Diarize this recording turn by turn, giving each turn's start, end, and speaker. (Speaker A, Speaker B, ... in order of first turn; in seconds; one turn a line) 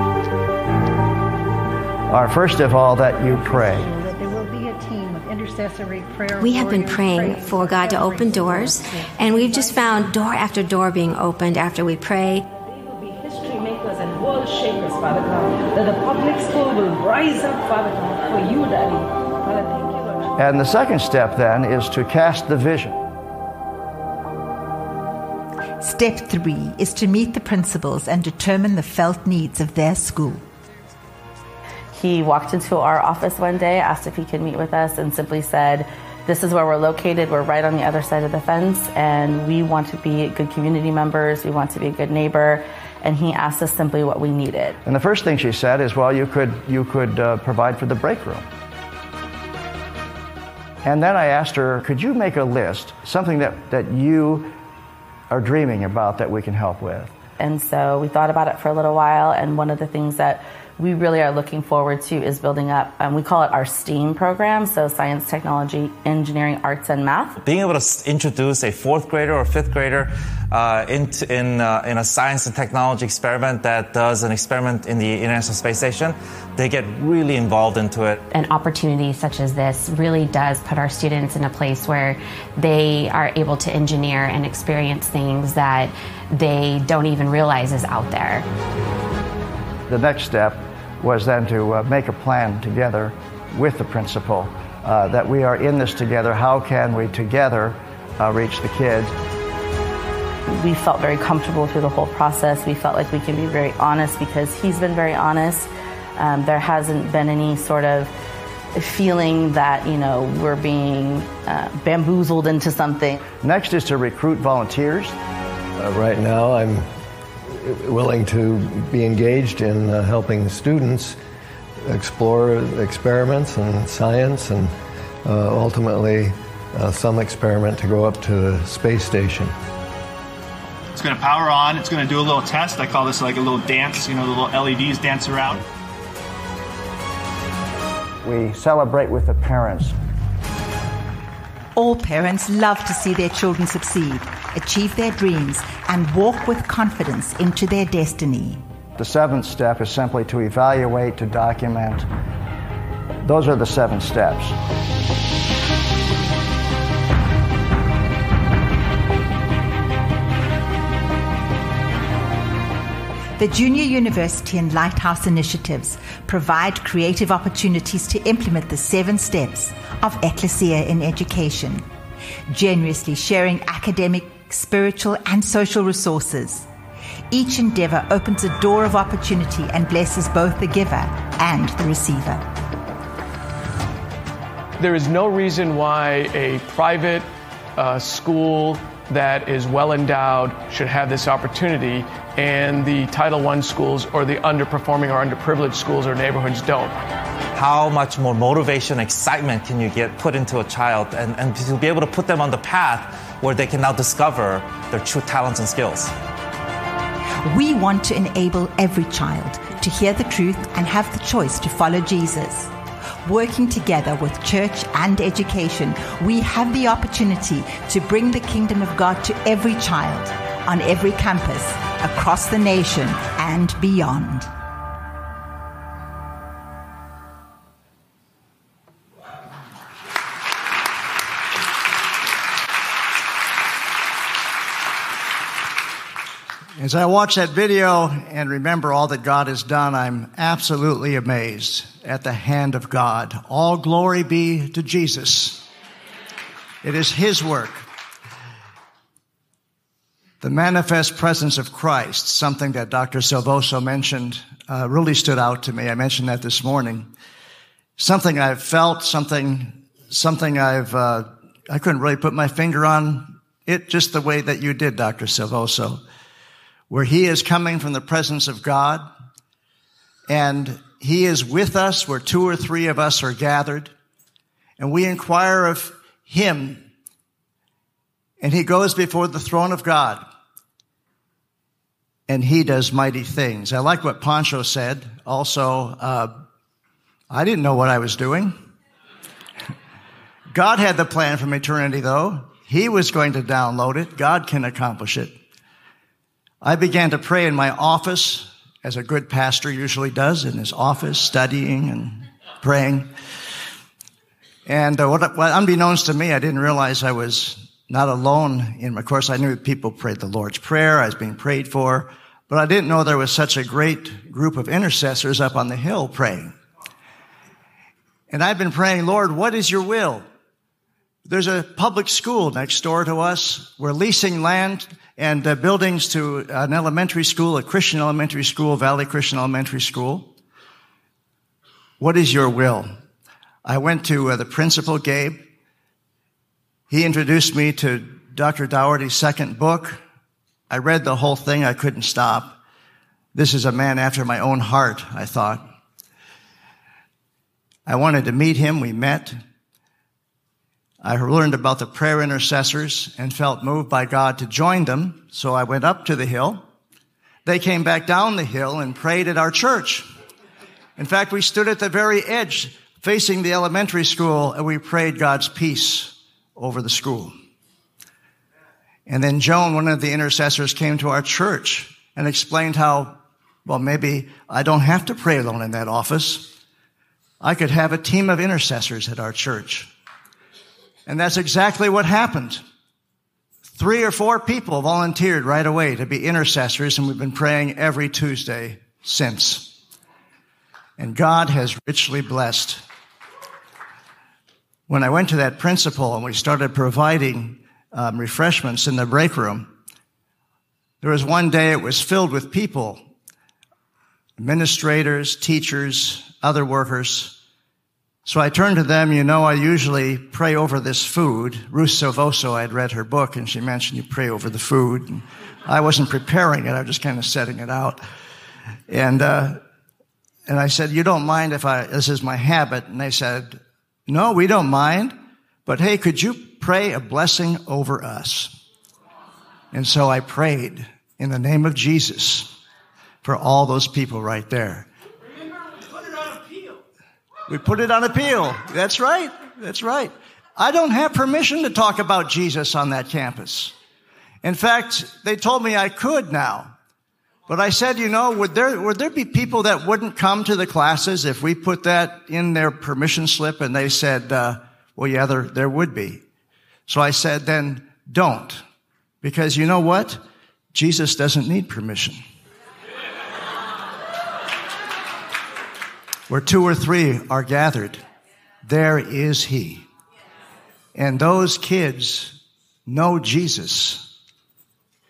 Speaker A: 2.1-3.9
Speaker B: 3.3-9.9
Speaker C: 6.4-12.5
Speaker D: 12.6-20.3
Speaker A: 20.4-23.0
Speaker E: 25.8-30.4
Speaker F: 32.0-44.8
Speaker A: 44.9-48.5
Speaker A: 50.9-54.5
Speaker A: 55.3-57.1
Speaker F: 57.4-67.4
Speaker G: 67.4-78.2
Speaker H: 78.3-88.5
Speaker A: 89.9-99.2
Speaker F: 100.5-108.1
Speaker F: 108.8-113.3
Speaker A: 113.3-115.2
Speaker I: 115.8-116.9
Speaker I: 117.5-121.2
Speaker I: 121.8-129.5
Speaker J: 130.9-135.6
Speaker A: 138.2-139.9
Speaker E: 141.8-148.6
Speaker A: 149.0-152.1
Speaker A: 153.2-154.6
Speaker E: 163.4-171.9
Speaker E: 172.5-176.7
Speaker E: 177.3-182.4
Speaker K: 184.8-197.0
Speaker G: 197.5-206.1
Speaker E: 207.4-212.7
Speaker E: 213.2-224.5
Speaker A: 236.8-245.7
Speaker A: 246.8-247.9
Speaker A: 250.4-257.1
Speaker A: 258.0-266.0
Speaker A: 266.9-269.1
Speaker A: 270.3-273.9
Speaker A: 274.8-276.9
Speaker A: 278.4-280.2
Speaker A: 282.3-286.4
Speaker A: 287.3-288.6
Speaker A: 290.5-295.4
Speaker A: 296.6-303.1
Speaker A: 304.7-316.5
Speaker A: 318.3-320.2
Speaker A: 321.3-330.3
Speaker A: 332.0-332.9
Speaker A: 333.6-335.4
Speaker A: 336.9-340.0
Speaker A: 340.7-342.6
Speaker A: 343.4-345.6
Speaker A: 347.9-349.4
Speaker A: 351.0-356.6
Speaker A: 357.4-360.1
Speaker A: 361.0-367.3
Speaker A: 369.1-376.5
Speaker A: 377.4-379.9
Speaker A: 381.1-382.6
Speaker A: 383.8-389.8
Speaker A: 391.0-392.8
Speaker A: 394.9-399.7
Speaker A: 401.0-403.0
Speaker A: 404.4-407.4
Speaker A: 408.3-418.0
Speaker A: 418.9-419.6
Speaker A: 420.5-425.1
Speaker A: 425.7-428.5
Speaker A: 429.7-432.5
Speaker A: 433.2-434.9
Speaker A: 437.5-443.7
Speaker A: 444.4-446.7
Speaker A: 447.5-456.2
Speaker A: 456.9-458.6
Speaker A: 459.2-460.2
Speaker A: 460.7-462.2
Speaker A: 466.3-468.0
Speaker A: 468.6-469.9
Speaker A: 470.9-474.0